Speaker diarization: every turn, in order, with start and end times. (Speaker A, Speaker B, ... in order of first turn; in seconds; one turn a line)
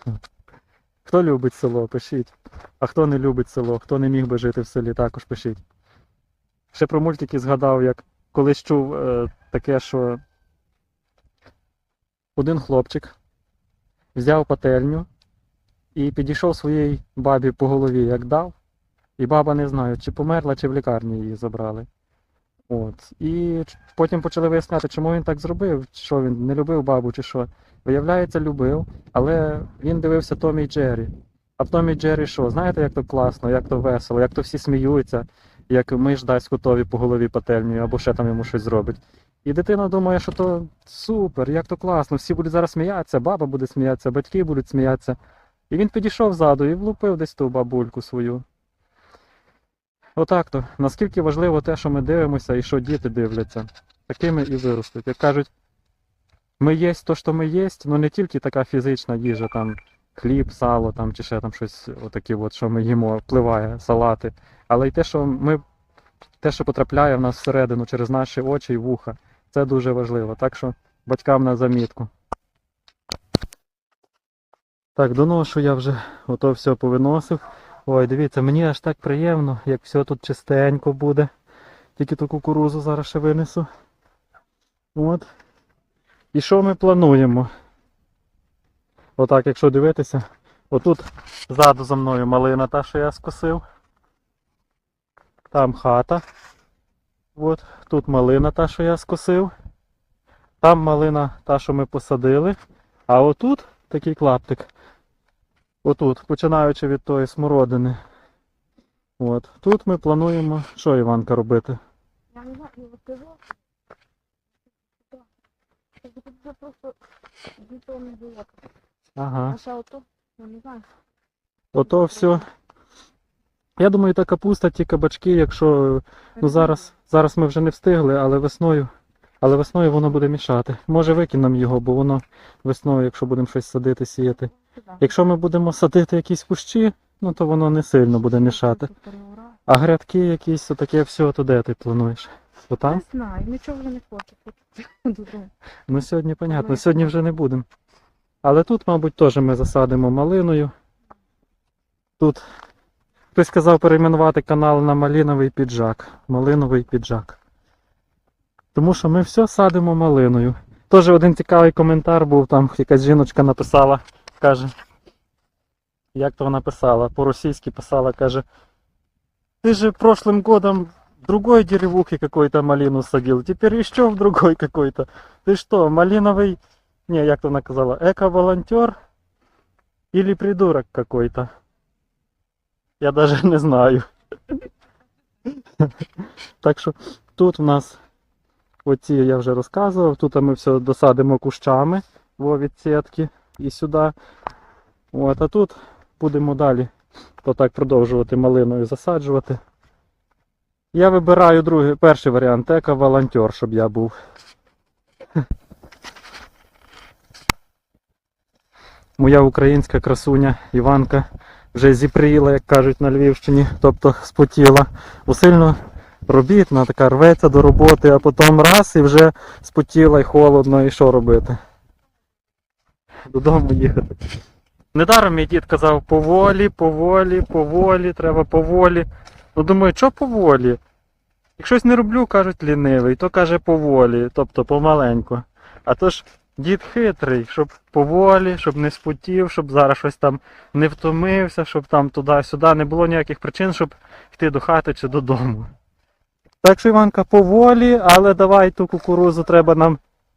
Speaker A: 1.0-5.6
Speaker A: 6.7-10.2
Speaker A: 12.3-13.2
Speaker A: 14.1-15.1
Speaker A: 15.9-18.6
Speaker A: 19.2-21.9
Speaker A: 22.7-45.2
Speaker A: 45.7-48.4
Speaker A: 50.1-55.5
Speaker A: 56.6-65.6
Speaker A: 66.4-72.1
Speaker A: 75.0-81.3
Speaker A: 82.0-83.7
Speaker A: 84.9-85.2
Speaker A: 86.3-87.5
Speaker A: 89.2-93.6
Speaker A: 95.5-96.2
Speaker A: 97.3-99.5
Speaker A: 100.6-102.5
Speaker A: 103.1-104.7
Speaker A: 105.8-108.0
Speaker A: 109.2-111.8
Speaker B: 112.3-113.4
Speaker B: 116.0-117.0
Speaker B: 117.6-118.5
Speaker A: 119.2-119.6
Speaker B: 119.5-120.8
Speaker A: 121.7-122.5
Speaker A: 123.8-128.9
Speaker A: 129.4-138.9
Speaker B: 138.7-139.6
Speaker A: 139.7-143.0
Speaker B: 142.9-145.5
Speaker A: 145.9-147.7
Speaker B: 146.5-146.9
Speaker A: 148.4-150.7
Speaker A: 153.3-157.4
Speaker A: 158.7-164.7
Speaker A: 166.1-168.4
Speaker A: 169.6-178.9
Speaker A: 180.1-181.5
Speaker A: 183.0-184.6
Speaker A: 186.6-188.0
Speaker A: 188.8-194.1
Speaker A: 195.1-196.9
Speaker A: 197.4-199.6
Speaker A: 200.9-204.1
Speaker A: 209.2-221.6
Speaker A: 223.3-224.1
Speaker A: 224.9-230.8
Speaker A: 231.6-245.7
Speaker A: 246.6-250.0